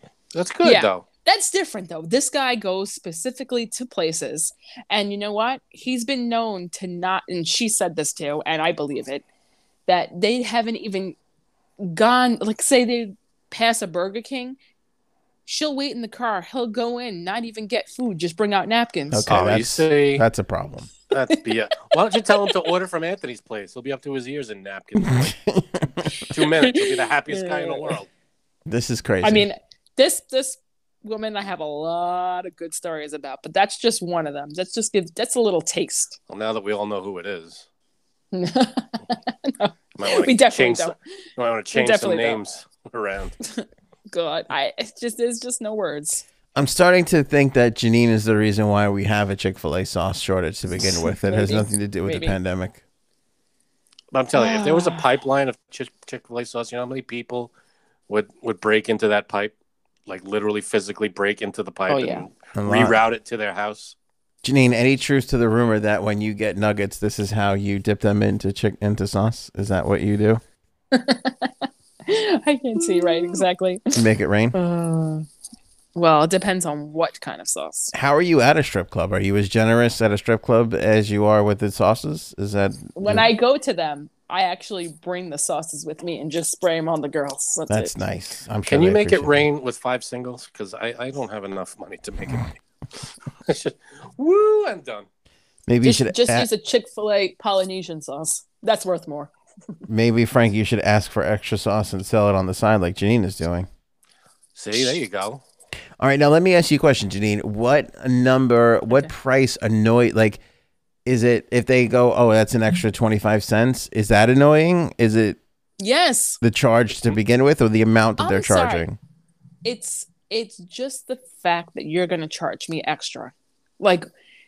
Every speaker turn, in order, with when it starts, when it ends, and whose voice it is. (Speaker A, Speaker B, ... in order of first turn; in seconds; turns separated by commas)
Speaker A: 0.3-1.0, Speaker B: 0.6-9.2, Speaker B: 9.9-11.2, Speaker B: 11.8-14.6, Speaker B: 15.4-19.3, Speaker C: 19.1-20.9, Speaker A: 19.3-20.2, Speaker A: 21.1-25.3, Speaker C: 25.0-26.2, Speaker A: 26.3-28.1, Speaker B: 26.6-28.0, Speaker C: 28.6-29.4, Speaker B: 29.2-36.2, Speaker A: 36.3-37.6, Speaker B: 38.3-41.0, Speaker A: 40.0-43.4, Speaker B: 41.7-42.4, Speaker B: 43.5-46.2, Speaker C: 46.5-52.8, Speaker B: 50.8-52.4, Speaker A: 54.1-57.5, Speaker B: 54.3-55.0, Speaker A: 58.1-59.5, Speaker A: 60.0-64.0, Speaker B: 61.9-62.3, Speaker C: 62.5-63.0, Speaker C: 64.4-70.4, Speaker B: 70.9-73.9, Speaker C: 73.9-74.6, Speaker B: 74.5-75.2, Speaker B: 75.9-77.9, Speaker C: 77.9-83.3, Speaker B: 83.0-87.9, Speaker C: 87.7-89.4, Speaker A: 88.7-95.1, Speaker C: 95.7-96.5, Speaker B: 95.8-99.3, Speaker C: 99.9-103.7, Speaker A: 104.5-105.4, Speaker C: 106.0-110.4, Speaker C: 111.0-115.4, Speaker B: 115.8-116.4, Speaker C: 116.4-119.0, Speaker B: 118.2-118.8, Speaker B: 119.6-124.1